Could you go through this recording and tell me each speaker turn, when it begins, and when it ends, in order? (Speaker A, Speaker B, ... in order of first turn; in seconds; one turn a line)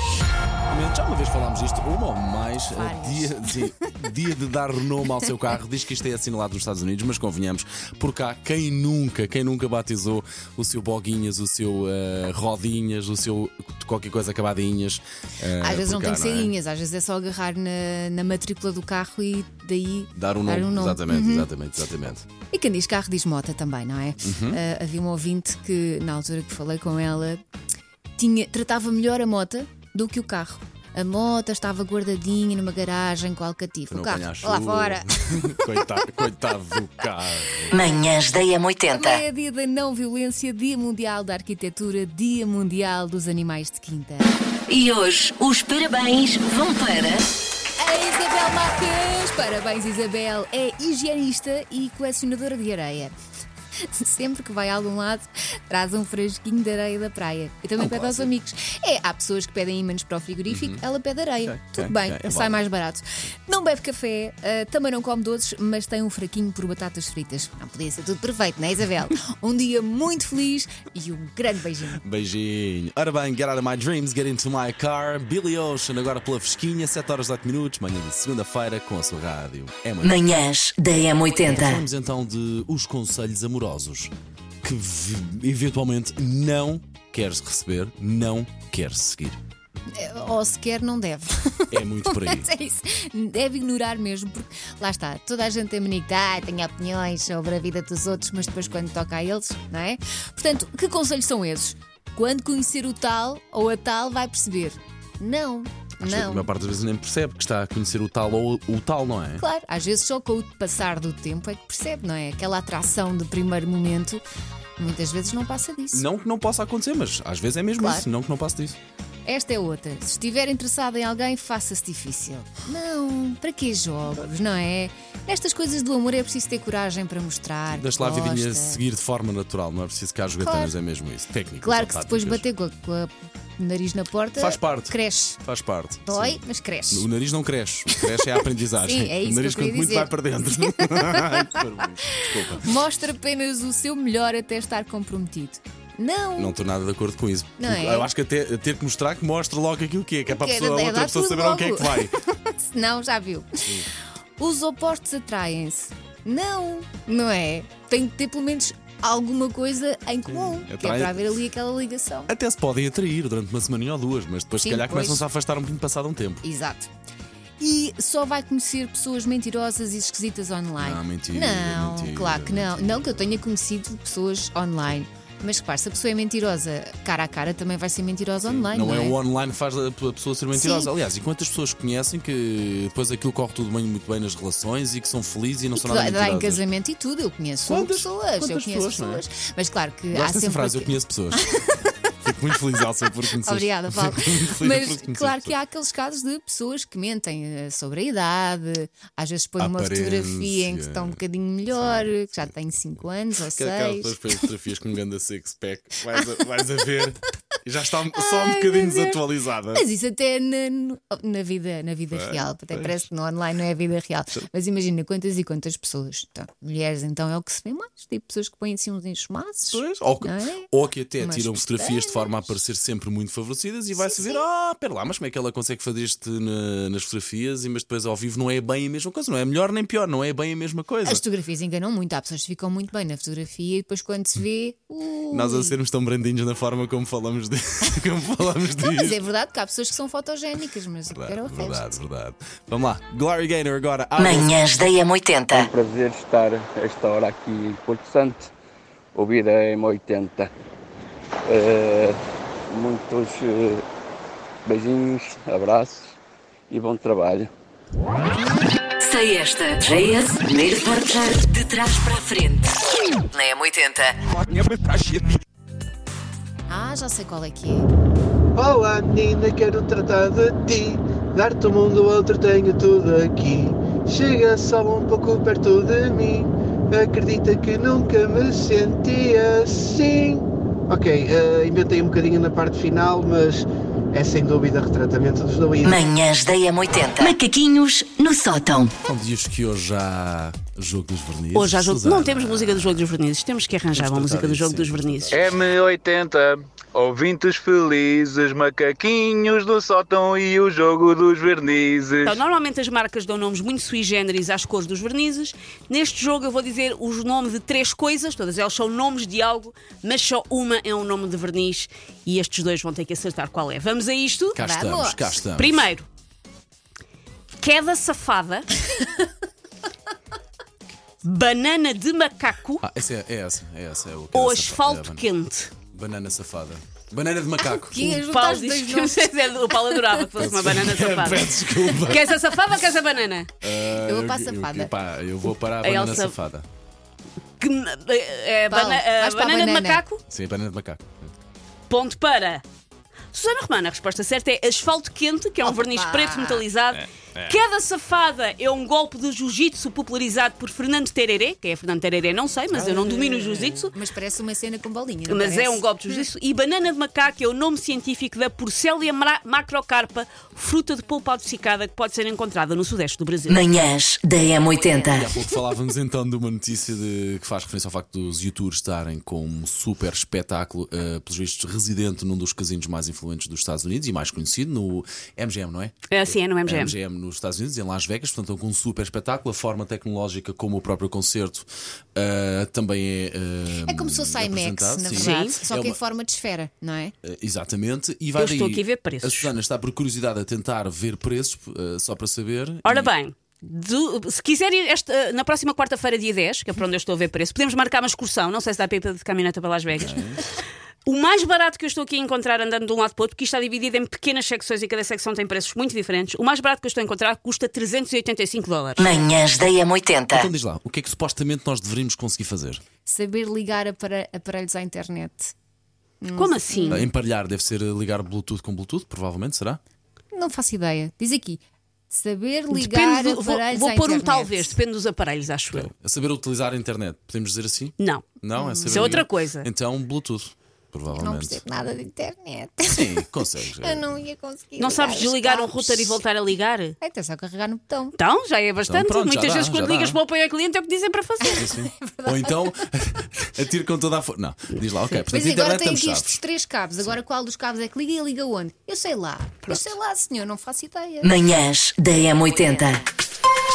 Speaker A: 0.7-16.5
Speaker B: 2.7-4.0
Speaker B: 15.6-21.5
Speaker A: 20.1-22.2
Speaker B: 22.5-27.4
Speaker A: 24.2-24.6
Speaker B: 28.2-35.7
Speaker A: 33.9-37.9
Speaker C: 37.7-39.2
Speaker B: 38.9-44.3
Speaker C: 44.7-47.3
Speaker B: 47.8-53.1
Speaker B: 53.9-72.0
Speaker A: 57.8-58.3
Speaker A: 60.5-60.8
Speaker A: 61.4-62.6
Speaker A: 72.0-80.2
Speaker C: 80.0-81.8
Speaker A: 81.4-84.1
Speaker A: 84.6-89.4
Speaker B: 89.9-106.5
Speaker A: 91.7-92.5
Speaker A: 106.0-109.4
Speaker B: 109.4-114.2
Speaker B: 114.8-116.0
Speaker A: 115.9-118.8
Speaker B: 117.8-118.1
Speaker B: 119.3-128.8
Speaker A: 127.7-132.4
Speaker B: 130.4-130.7
Speaker B: 131.6-135.4
Speaker A: 134.4-142.8
Speaker B: 136.1-137.1
Speaker B: 137.9-138.2
Speaker B: 138.8-141.7
Speaker B: 142.6-146.6
Speaker A: 146.4-152.1
Speaker B: 147.6-148.1
Speaker B: 150.3-153.5
Speaker B: 154.4-162.3
Speaker A: 160.3-161.3
Speaker A: 162.3-166.4
Speaker B: 164.6-165.2
Speaker B: 166.4-166.9
Speaker B: 167.6-179.2
Speaker A: 170.8-173.1
Speaker A: 178.4-186.6
Speaker B: 180.5-180.9
Speaker B: 185.7-191.7
Speaker A: 187.7-189.2
Speaker A: 190.1-191.5
Speaker A: 192.2-195.5
Speaker B: 193.4-204.2
Speaker A: 199.6-201.2
Speaker A: 201.8-202.3
Speaker A: 203.5-209.9
Speaker B: 208.2-209.2
Speaker B: 209.7-222.5
Speaker A: 212.1-213.0
Speaker A: 219.7-231.2
Speaker B: 224.0-224.4
Speaker B: 231.0-235.8
Speaker A: 235.3-239.2
Speaker B: 238.8-242.0
Speaker A: 241.1-244.5
Speaker C: 244.2-245.7
Speaker D: 245.5-248.5
Speaker D: 249.2-250.5
Speaker D: 251.5-253.8
Speaker D: 254.7-256.2
Speaker D: 256.7-257.5
Speaker C: 259.0-262.8
Speaker C: 263.3-264.2
Speaker B: 266.7-267.9
Speaker E: 268.6-286.1
Speaker C: 285.8-288.9
Speaker A: 289.0-293.2
Speaker F: 291.5-295.4
Speaker A: 293.9-295.6
Speaker G: 295.3-302.4
Speaker F: 302.2-314.6
Speaker A: 314.5-315.9
Speaker B: 314.6-315.4
Speaker F: 315.5-316.1
Speaker F: 317.6-318.7
Speaker B: 319.0-319.2
Speaker F: 321.2-322.8
Speaker A: 322.8-325.2
Speaker F: 324.3-325.7
Speaker A: 325.9-328.2
Speaker B: 327.6-330.4
Speaker F: 328.1-333.5
Speaker A: 330.4-332.2
Speaker A: 333.6-336.7
Speaker B: 333.8-334.9
Speaker F: 335.8-336.4
Speaker F: 337.6-340.2
Speaker B: 338.7-340.0
Speaker A: 340.3-341.1
Speaker F: 341.9-342.6
Speaker F: 343.3-353.9
Speaker B: 345.6-346.6
Speaker A: 346.9-347.6
Speaker A: 352.7-353.8
Speaker B: 353.9-355.9
Speaker F: 355.3-363.6
Speaker C: 363.5-365.3
Speaker A: 364.9-376.1
Speaker F: 376.1-376.9
Speaker A: 376.7-386.0
Speaker B: 383.9-387.1
Speaker F: 385.1-385.6
Speaker A: 387.2-393.1
Speaker F: 388.4-389.5
Speaker F: 392.9-400.2
Speaker A: 400.0-400.5
Speaker F: 401.1-409.2
Speaker C: 409.0-410.5
Speaker A: 410.3-412.8
Speaker B: 413.1-415.5
Speaker B: 416.2-417.1
Speaker F: 416.4-417.1
Speaker A: 416.9-419.8
Speaker B: 420.3-424.8
Speaker F: 422.7-425.9
Speaker A: 425.7-431.6
Speaker F: 428.0-428.2
Speaker B: 428.6-429.2
Speaker F: 428.8-429.7
Speaker B: 431.1-433.3
Speaker A: 432.9-434.1
Speaker B: 433.8-436.2
Speaker F: 434.8-436.9
Speaker B: 437.0-438.2
Speaker F: 438.2-441.7
Speaker A: 438.9-440.2
Speaker B: 441.5-442.8
Speaker A: 441.6-446.4
Speaker B: 445.3-451.3
Speaker C: 451.2-453.1